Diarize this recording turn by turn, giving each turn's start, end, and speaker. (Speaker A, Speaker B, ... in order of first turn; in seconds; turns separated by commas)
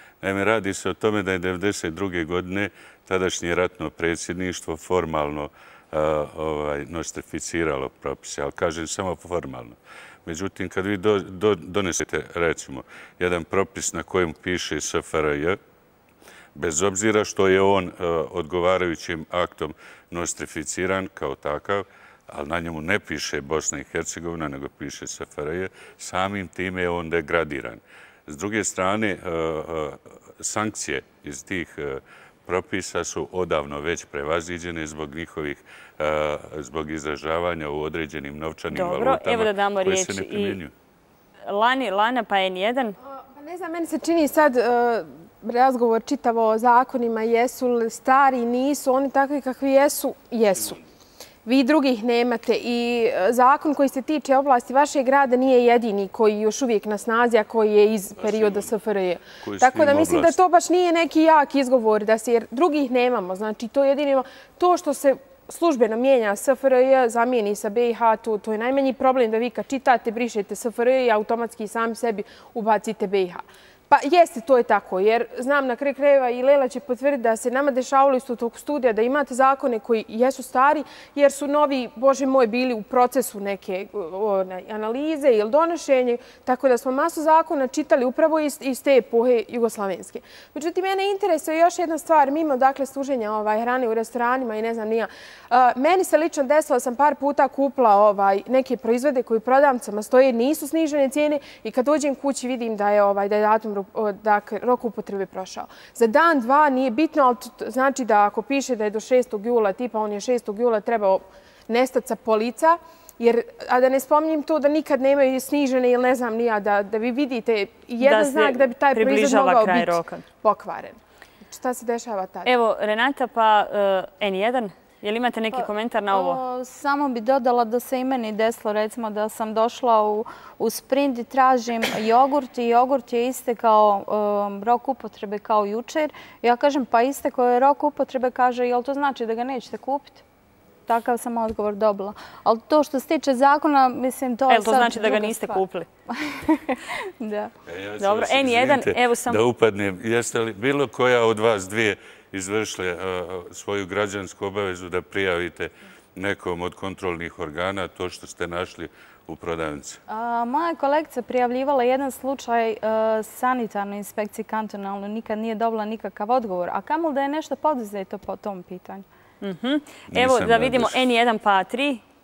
Speaker A: 0.2-15.6, Speaker A: 16.6-40.7, Speaker B: 38.7-40.6, Speaker B: 41.5-43.0, Speaker C: 43.1-50.8, Speaker C: 51.5-122.5, Speaker A: 58.2-58.7, Speaker A: 59.4-60.4, Speaker B: 118.0-120.2, Speaker B: 122.5-126.4, Speaker D: 125.5-140.2, Speaker D: 140.9-147.5, Speaker B: 144.5-145.9, Speaker A: 147.7-160.0, Speaker B: 148.0-149.4, Speaker D: 160.1-169.1, Speaker B: 169.4-172.0, Speaker A: 170.1-171.0